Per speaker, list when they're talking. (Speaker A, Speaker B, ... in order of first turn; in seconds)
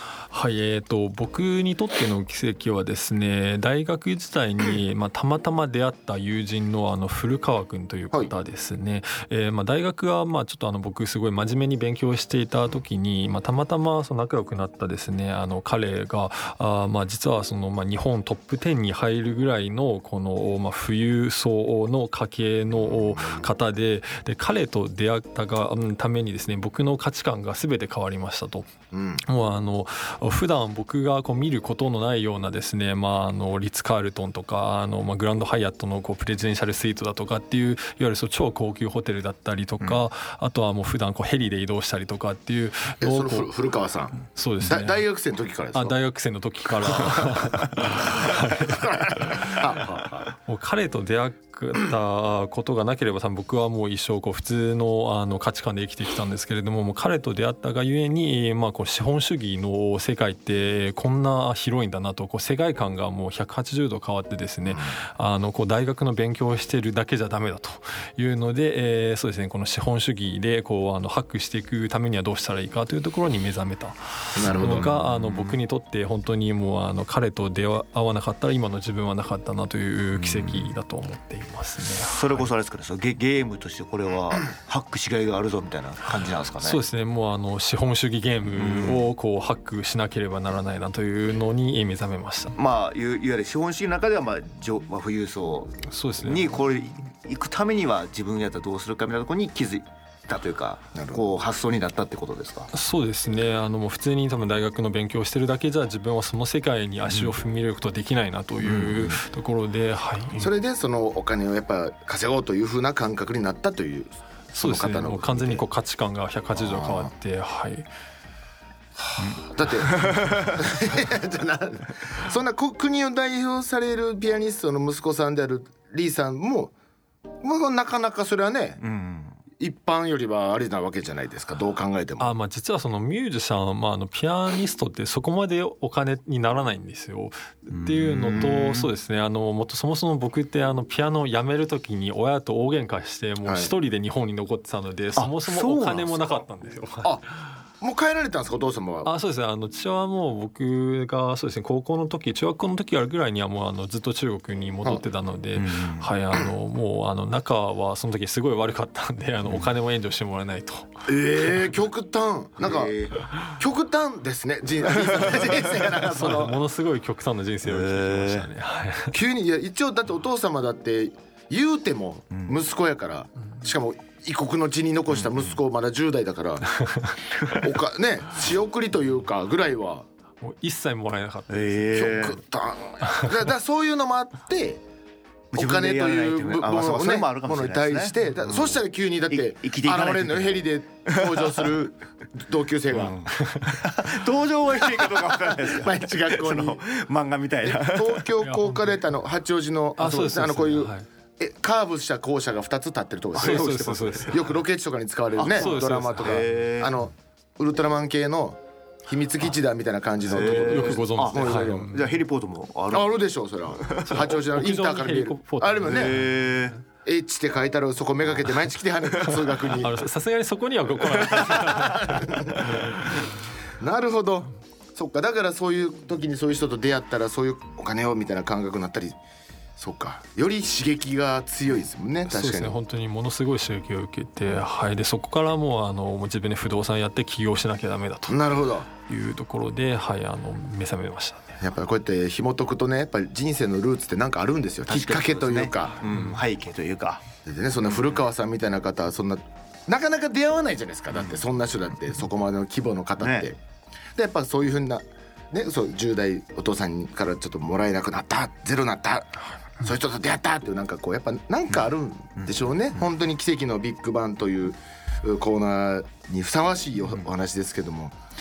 Speaker A: 0.3-43.5, 44.3-45.0, 45.7-49.8, 50.4-82.5, 86.6-92.5, 95.9-96.6, 102.7-110.5, 114.5-117.9, 132.2-147.1, 149.0-160.9, 166.0-169.1, 176.9-177.1, 180.4-182.1, 193.4-193.8, 198.4-198.9, 200.0-201.1, 203.4-204.4, 205.6-206.5, 210.4-212.2, 214.0-216.7, 219.7-223.3, 232.3-238.4, 239.0-241.6
Speaker B: 28.9-29.2, 43.0-46.0, 47.8-50.3, 74.4-74.9, 100.9-101.2, 110.4-115.6, 116.5-117.1, 119.0-126.7, 127.4-128.8, 129.6-132.3, 143.4-143.7, 147.8-149.1, 161.1-166.5, 169.1-176.7, 177.4-180.1, 181.9-184.8, 185.5-193.2, 194.8-196.8, 197.6-203.8, 204.3-211.9, 212.9-216.1, 217.0-220.0, 221.3-222.7, 223.8-229.2, 229.8-232.8, 238.3-238.9, 241.6-246.0, 247.5-253.6, 254.2-268.1
Speaker C: 74.5-75.6, 80.2-80.7, 82.0-86.8, 88.6-89.1, 92.5-102.7, 108.6-109.2, 119.2-120.6, 128.8-129.4, 137.7-138.9, 145.2-146.4, 155.5-156.1, 162.6-163.2, 167.6-168.5, 175.2-175.5, 181.5-182.4, 185.5-191.7, 192.9-198.3, 203.3-204.4, 205.4-207.0, 210.3-213.1, 213.7-214.2, 215.9-216.8, 244.9-247.2, 253.2-253.5